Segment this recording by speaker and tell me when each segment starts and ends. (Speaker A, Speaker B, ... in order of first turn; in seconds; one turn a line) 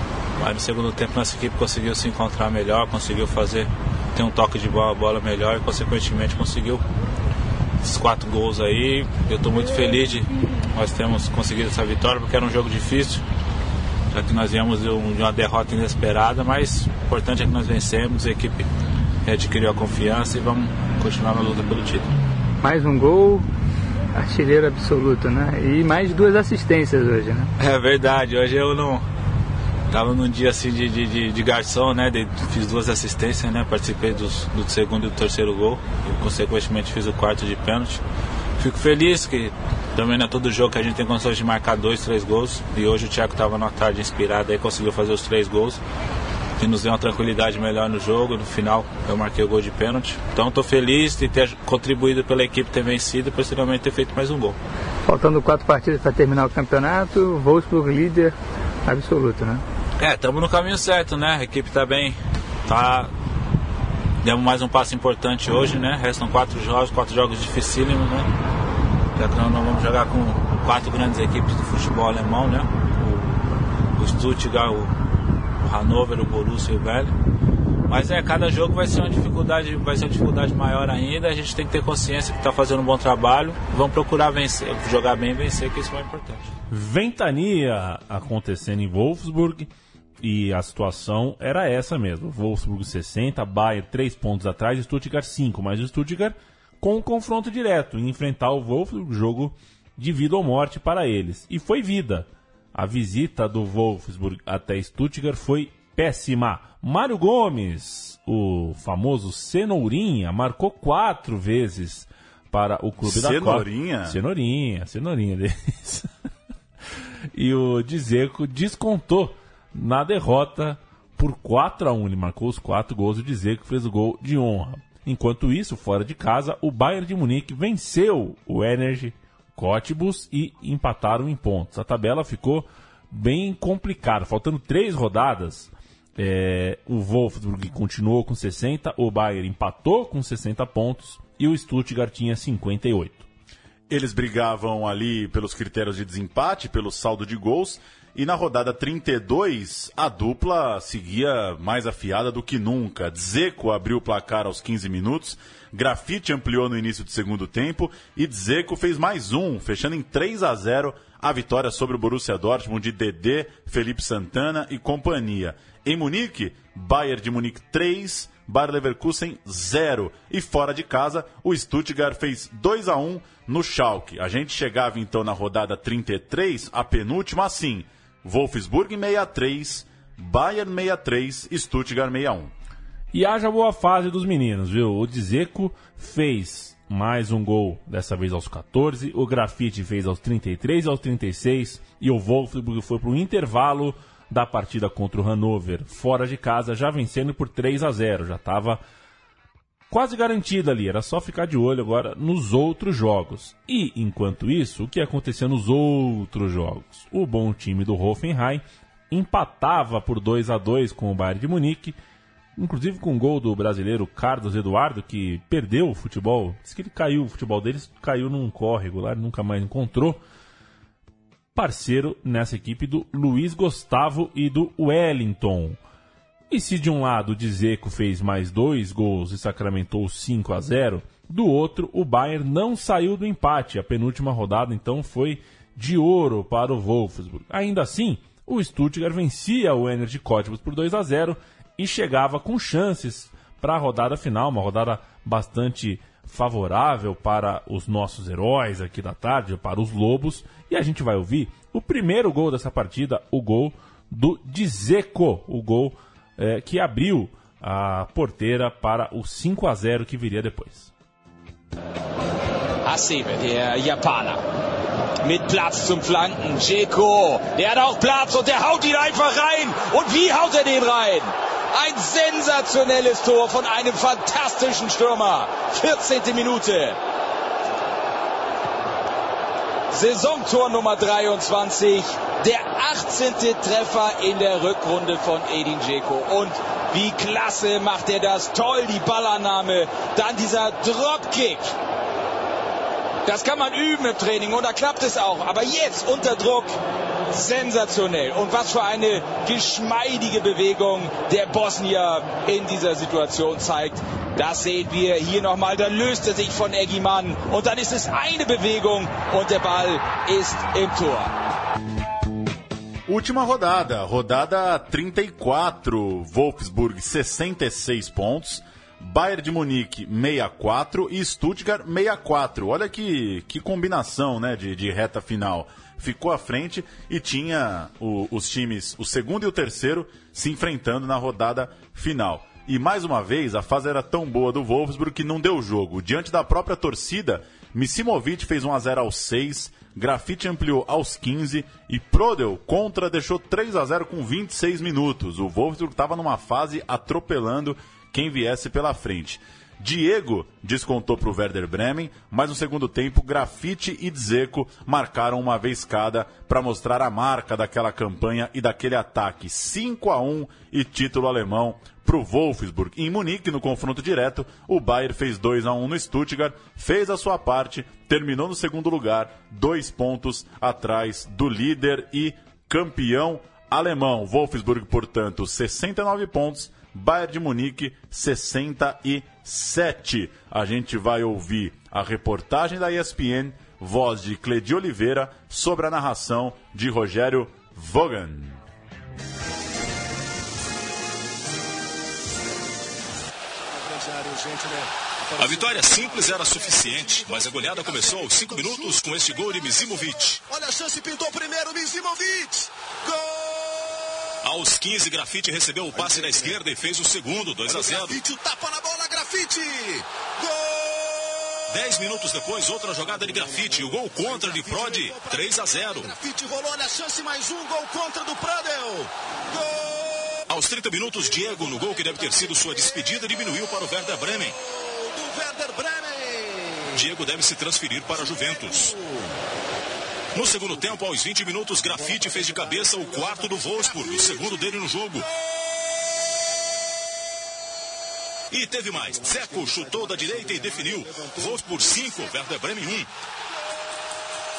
Speaker A: 0.4-6.8
Speaker A: 7.8-13.2
Speaker A: 14.1-18.7
Speaker A: 19.2-22.1
Speaker B: 22.6-23.5
Speaker B: 24.1-27.5
Speaker A: 27.6-29.1
Speaker A: 29.9-38.0
Speaker A: 38.6-45.8
Speaker A: 46.6-54.6
Speaker B: 55.1-59.6
Speaker A: 60.0-63.1
Speaker A: 64.2-68.3
Speaker A: 69.2-73.4
Speaker A: 73.9-74.9
Speaker A: 75.6-77.1
Speaker A: 77.9-86.5
Speaker C: 86.7-89.7
Speaker C: 90.2-116.1
Speaker D: 113.0-114.2
Speaker C: 117.3-143.3
Speaker D: 143.9-182.5
Speaker C: 183.1-198.8
Speaker C: 199.9-212.0
Speaker C: 212.6-220.2
Speaker C: 221.6-225.8
Speaker C: 226.5-260.9
Speaker E: 262.9-264.4
Speaker E: 265.2-277.0
Speaker E: 279.9-291.7
Speaker E: 293.2-296.7
Speaker E: 297.3-311.3
Speaker D: 313.1-388.6
Speaker F: 393.7-404.1
Speaker G: 395.4-400.4
Speaker G: 404.4-408.2
Speaker F: 406.0-406.5
Speaker F: 407.6-411.5
Speaker G: 411.7-416.1
Speaker F: 413.1-420.4
Speaker G: 420.5-424.6
Speaker F: 421.2-423.1
Speaker F: 424.3-427.1
Speaker G: 426.9-429.0
Speaker F: 428.1-429.3
Speaker G: 430.4-435.3
Speaker F: 431.9-434.6
Speaker G: 438.5-443.1
Speaker F: 439.1-442.4